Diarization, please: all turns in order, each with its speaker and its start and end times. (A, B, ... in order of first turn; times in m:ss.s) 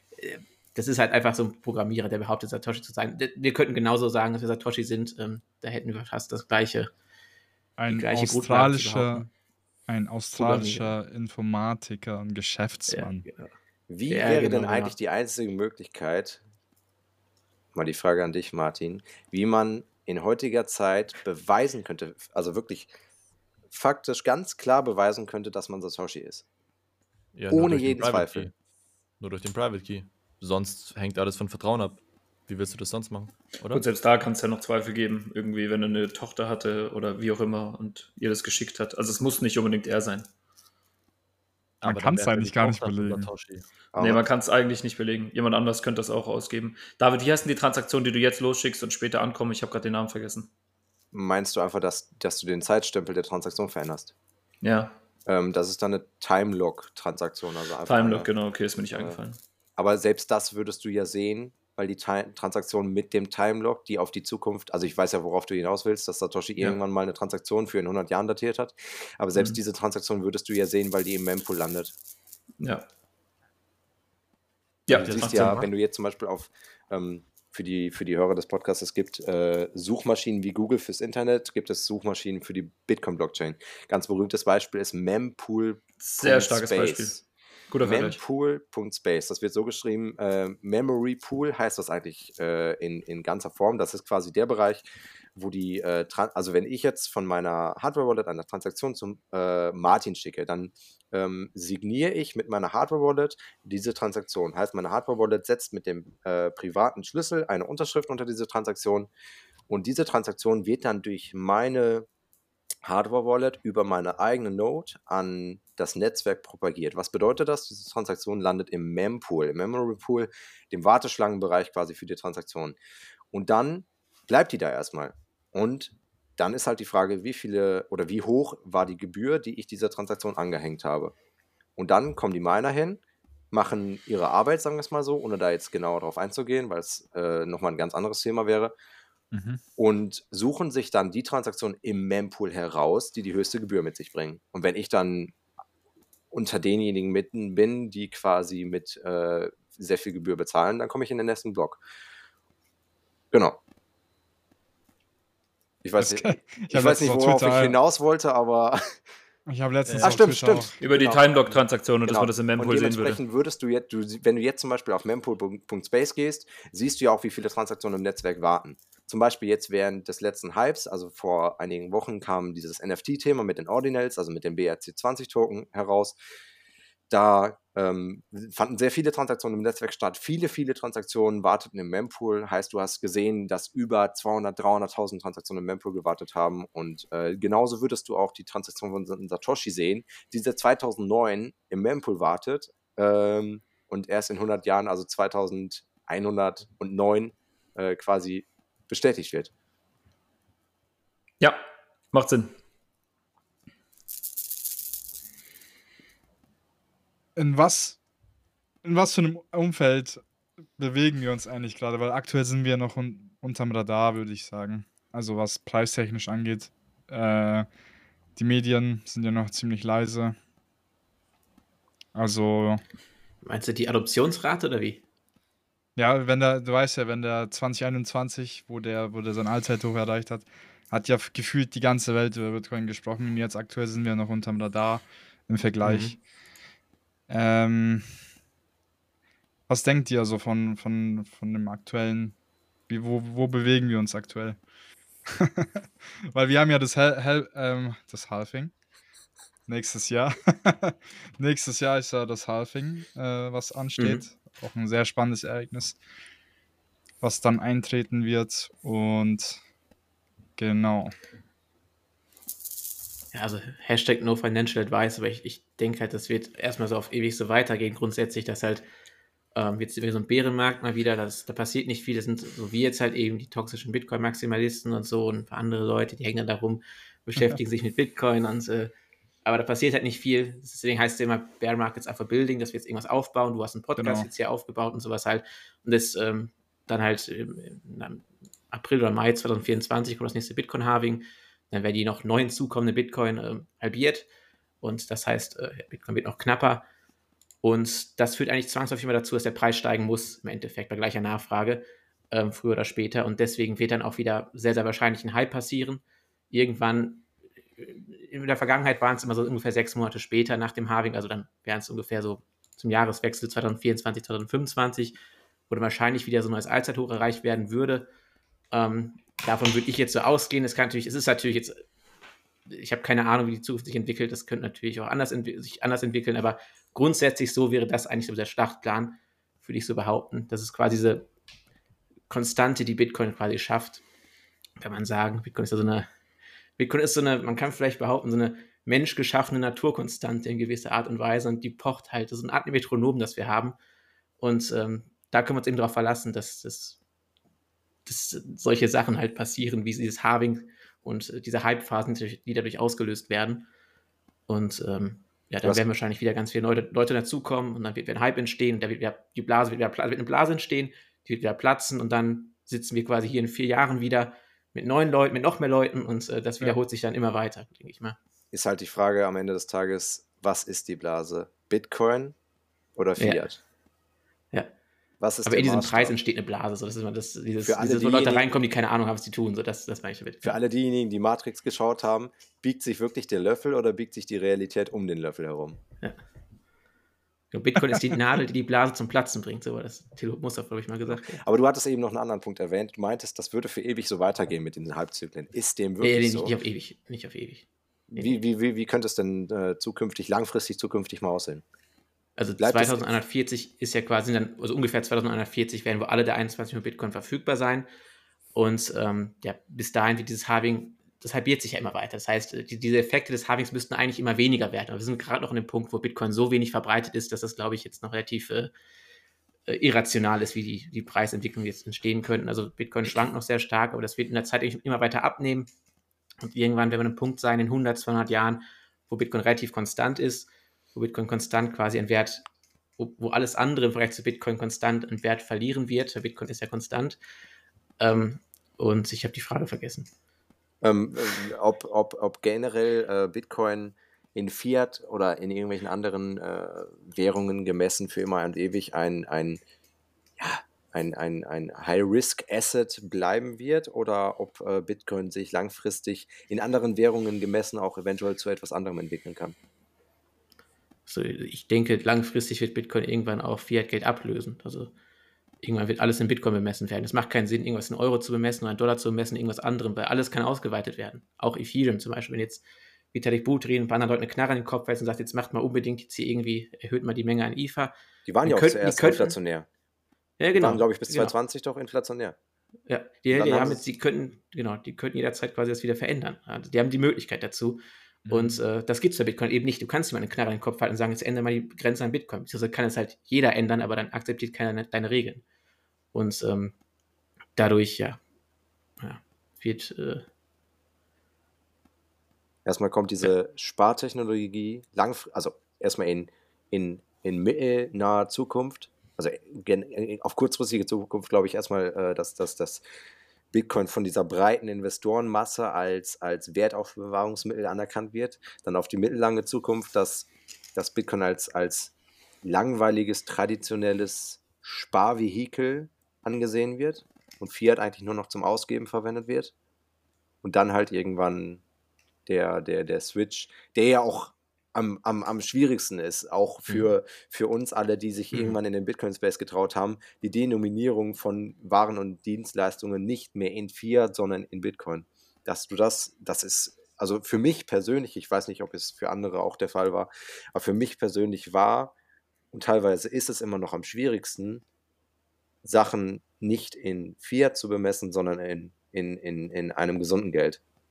0:00.2-0:06.9 A
0:07.8-0:09.3 B
0:07.9-0:09.3 A
0:09.9-0:13.2 B
0:10.4-0:10.9 A
0:12.9-0:13.5 A
0:13.9-0:16.4 C
0:14.1-0:14.9 A
0:17.7-0:22.9 C
0:23.7-0:26.4 C
0:27.3-0:28.5 D
0:27.5-0:28.5 C
0:29.2-0:33.8 D
0:33.7-0:40.3 E
0:41.8-0:43.3 B
0:41.8-0:43.7 D
0:43.9-0:44.2 C
0:44.0-0:50.5 E
0:51.1-0:54.1 C
0:54.6-0:54.9 E
0:55.3-0:58.3 C
0:57.8-0:59.4 E
0:58.9-0:59.2 C
0:59.8-1:11.9 C
1:14.9-1:15.6 E
1:14.9-1:27.2 C
1:14.9-1:15.7 D
1:26.0-1:27.1 E
1:27.7-1:28.2 E
1:27.8-1:49.1 C
1:49.7-1:52.1 C
1:52.8-2:02.8 C
2:03.3-2:11.1 C
2:11.8-2:13.0 C
2:13.5-2:18.7 C
2:19.3-2:19.6 B
2:19.8-2:25.3 C
2:26.3-2:31.8 C
2:33.3-2:33.6 C
2:35.8-2:38.9 C
2:36.0-2:37.8 B
2:39.5-2:40.8 B
2:39.8-2:40.2 D
2:40.0-2:56.2 C
2:40.8-2:43.2 E
2:57.1-3:19.5 C
3:21.4-3:22.5 E
3:27.4-3:28.0 B
3:28.8-3:30.2 B
3:30.8-3:37.7 B
3:38.4-3:40.4 B
3:42.1-3:42.8 B
3:43.4-3:45.0 A
3:46.0-3:56.2 B
3:55.8-3:56.2 A
3:57.3-3:58.1 B
3:59.7-4:02.4 B
4:02.9-4:04.6 B
4:05.4-4:08.7 B
4:09.7-4:16.0 B
4:17.2-4:19.6 B
4:20.6-4:21.1 B
4:23.3-4:28.8 A
4:29.5-4:38.9 A
4:39.4-4:54.3 A
4:44.0-4:44.3 B
4:54.8-4:56.8 A
4:57.6-5:15.2 A
5:15.7-5:18.1 A
5:18.7-5:21.8 A
5:22.7-5:31.3 A
5:32.3-5:34.0 A
5:34.8-5:36.1 A
5:36.8-5:43.8 A
5:44.4-5:47.0 A
5:48.0-5:53.7 A
5:54.5-6:08.2 A
6:08.5-6:12.3 C
6:13.0-6:13.6 C
6:15.2-6:16.2 C
6:15.4-6:20.6 A
6:17.6-6:18.5 C
6:20.4-6:25.8 C
6:27.5-6:31.4 A
6:31.1-6:36.5 C
6:36.0-6:38.3 A
6:38.1-6:41.6 C
6:42.4-6:47.9 A
6:42.6-6:43.0 C
6:48.5-6:58.7 A
6:59.7-7:05.7 A
7:06.4-7:12.4 A
7:13.0-7:17.2 A
7:18.0-7:20.1 A
7:20.8-7:29.6 C
7:30.4-7:39.6 C
7:41.1-7:44.9 A
7:45.6-7:57.9 A
7:58.2-7:59.7 C
7:58.4-7:59.3 A
8:00.4-8:01.3 A
8:00.5-8:02.4 C
8:02.9-8:15.4 A
8:03.3-8:03.8 C
8:08.2-8:08.6 B
8:16.1-8:16.7 A
8:17.6-8:18.2 A
8:19.0-8:20.2 A
8:22.6-8:32.8 C
8:33.5-8:49.5 C
8:50.4-8:51.6 C
8:52.2-9:11.9 C
9:12.5-9:14.6 C
9:15.6-9:20.6 C